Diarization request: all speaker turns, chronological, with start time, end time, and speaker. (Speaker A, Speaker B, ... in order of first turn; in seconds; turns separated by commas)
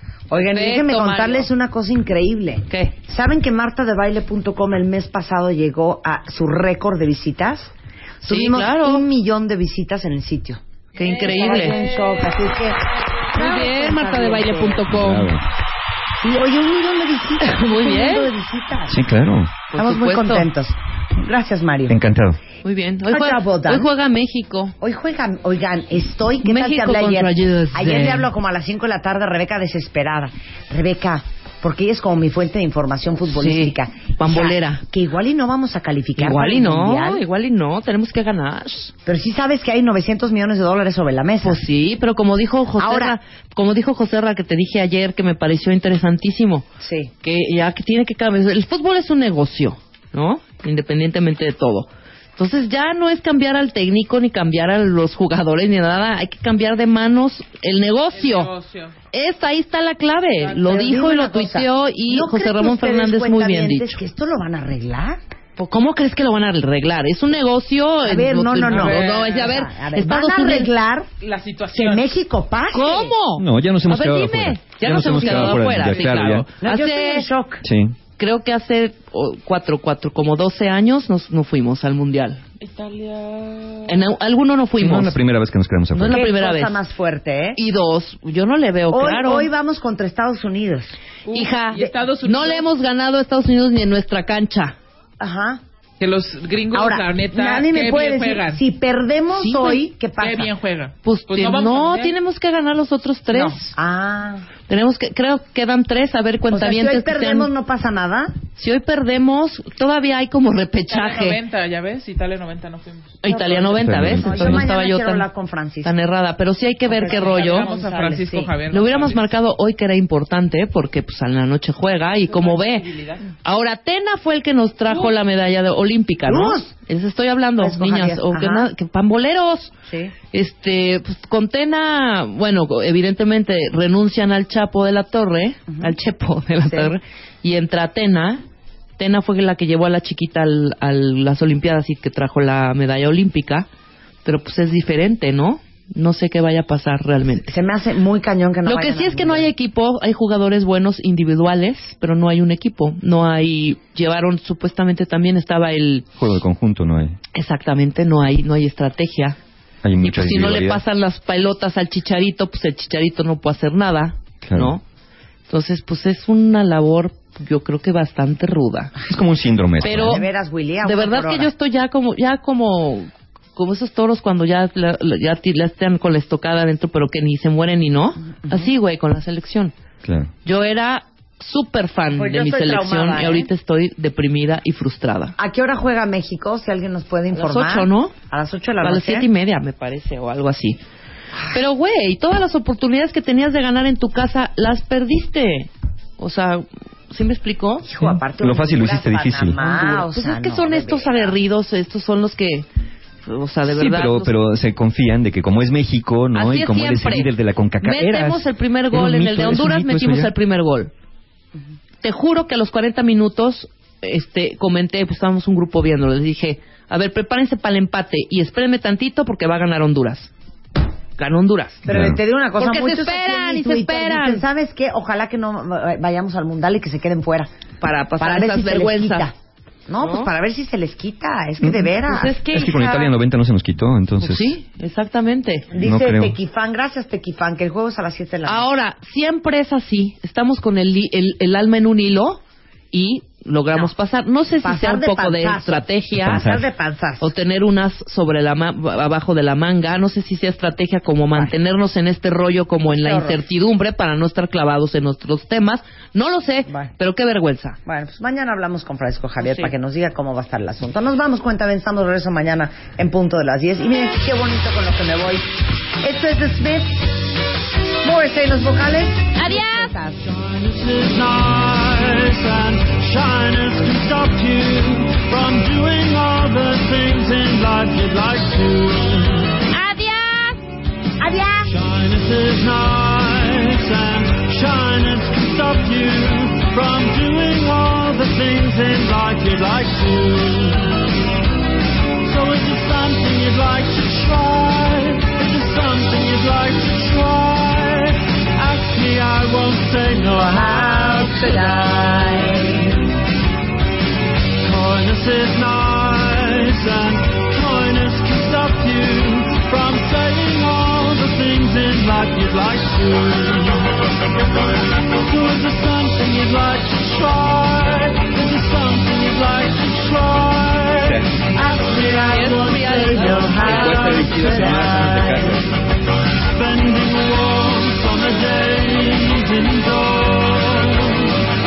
Speaker A: 0.3-10.6, Speaker B: 0.5-1.5, Speaker B: 2.7-3.0, Speaker B: 8.2-9.0, Speaker B: 11.0-11.8, Speaker A: 11.2-14.9, Speaker B: 13.3-15.3, Speaker C: 14.9-15.4, Speaker A: 16.2-19.0, Speaker B: 17.4-18.3, Speaker C: 18.9-19.6, Speaker B: 19.7-20.5, Speaker A: 19.7-22.0, Speaker C: 21.9-22.4, Speaker B: 22.6-24.8, Speaker A: 23.1-23.9, Speaker A: 24.8-37.2, Speaker B: 26.4-28.3, Speaker B: 33.3-34.8, Speaker B: 36.2-38.9, Speaker A: 39.0-41.6, Speaker B: 41.4-46.7, Speaker A: 42.8-43.2, Speaker A: 46.8-47.1, Speaker B: 47.2-58.5, Speaker D: 58.1-58.9, Speaker B: 59.1-64.0, Speaker A: 60.6-65.2, Speaker B: 65.6-70.7, Speaker A: 68.0-71.1, Speaker D: 68.6-69.6, Speaker D: 71.2-72.1, Speaker A: 71.7-73.1, Speaker B: 72.7-77.3, Speaker C: 73.4-76.5, Speaker A: 76.6-77.6, Speaker C: 77.6-78.0, Speaker B: 78.2-82.4, Speaker D: 82.6-84.0, Speaker B: 83.9-85.2, Speaker C: 84.8-86.2, Speaker B: 85.9-86.8, Speaker A: 86.0-87.6, Speaker B: 87.6-89.5, Speaker A: 88.9-90.9, Speaker D: 91.3-92.7, Speaker B: 91.3-94.8, Speaker A: 95.2-95.6, Speaker D: 96.0-98.6, Speaker A: 96.7-100.5, Speaker B: 99.4-99.8, Speaker D: 100.2-102.2, Speaker B: 101.0-103.7, Speaker A: 103.3-104.5, Speaker B: 104.7-107.5, Speaker A: 106.5-108.3, Speaker B: 108.6-111.4, Speaker D: 110.9-114.5, Speaker B: 113.2-115.3, Speaker A: 113.3-115.9, Speaker C: 113.8-114.7, Speaker B: 115.8-117.7, Speaker A: 116.9-118.5, Speaker D: 116.9-119.3, Speaker B: 118.7-129.7, Speaker D: 121.9-123.3, Speaker A: 126.3-126.7, Speaker A: 127.6-128.7, Speaker A: 129.9-130.1, Speaker B: 130.3-138.4, Speaker A: 135.7-135.9, Speaker A: 136.7-136.9, Speaker B: 139.0-143.7, Speaker B: 144.2-147.5, Speaker A: 147.5-149.5, Speaker B: 148.7-156.1, Speaker C: 156.2-157.2, Speaker B: 157.3-159.4, Speaker C: 159.8-160.8, Speaker B: 160.0-164.8, Speaker C: 164.4-164.8, Speaker B: 165.5-168.9, Speaker C: 169.1-170.2, Speaker A: 169.8-171.5, Speaker B: 169.8-170.3, Speaker B: 170.8-179.7, Speaker C: 180.0-180.3, Speaker B: 180.4-185.3, Speaker A: 182.2-183.5, Speaker A: 185.4-189.3, Speaker B: 187.3-188.1, Speaker B: 188.8-190.8, Speaker B: 191.5-197.9, Speaker A: 197.8-201.4, Speaker C: 198.0-199.6, Speaker B: 199.6-202.7, Speaker B: 203.2-204.3, Speaker C: 203.7-210.3, Speaker B: 206.3-210.9, Speaker B: 212.0-220.3, Speaker B: 221.2-221.9, Speaker C: 221.9-222.2, Speaker A: 221.9-227.5, Speaker B: 222.6-224.4, Speaker B: 227.8-229.3, Speaker A: 228.2-229.3, Speaker A: 229.9-232.4, Speaker B: 230.0-230.3, Speaker B: 232.0-233.1, Speaker C: 232.5-234.6, Speaker B: 234.2-235.7, Speaker A: 235.7-238.7, Speaker C: 235.8-236.4, Speaker B: 238.4-246.4, Speaker A: 244.6-247.3, Speaker C: 246.2-246.7, Speaker B: 247.2-257.8, Speaker A: 252.9-253.4, Speaker A: 257.9-267.1, Speaker B: 259.4-259.7, Speaker A: 268.0-270.2, Speaker B: 269.4-269.9, Speaker E: 270.2-279.6, Speaker A: 279.8-280.5, Speaker A: 281.2-281.7, Speaker E: 281.7-291.0, Speaker E: 292.2-302.2, Speaker A: 300.3-303.0, Speaker E: 304.6-324.8, Speaker C: 321.0-321.3, Speaker A: 321.6-325.6, Speaker B: 322.3-324.5, Speaker C: 323.6-325.7, Speaker E: 326.4-331.4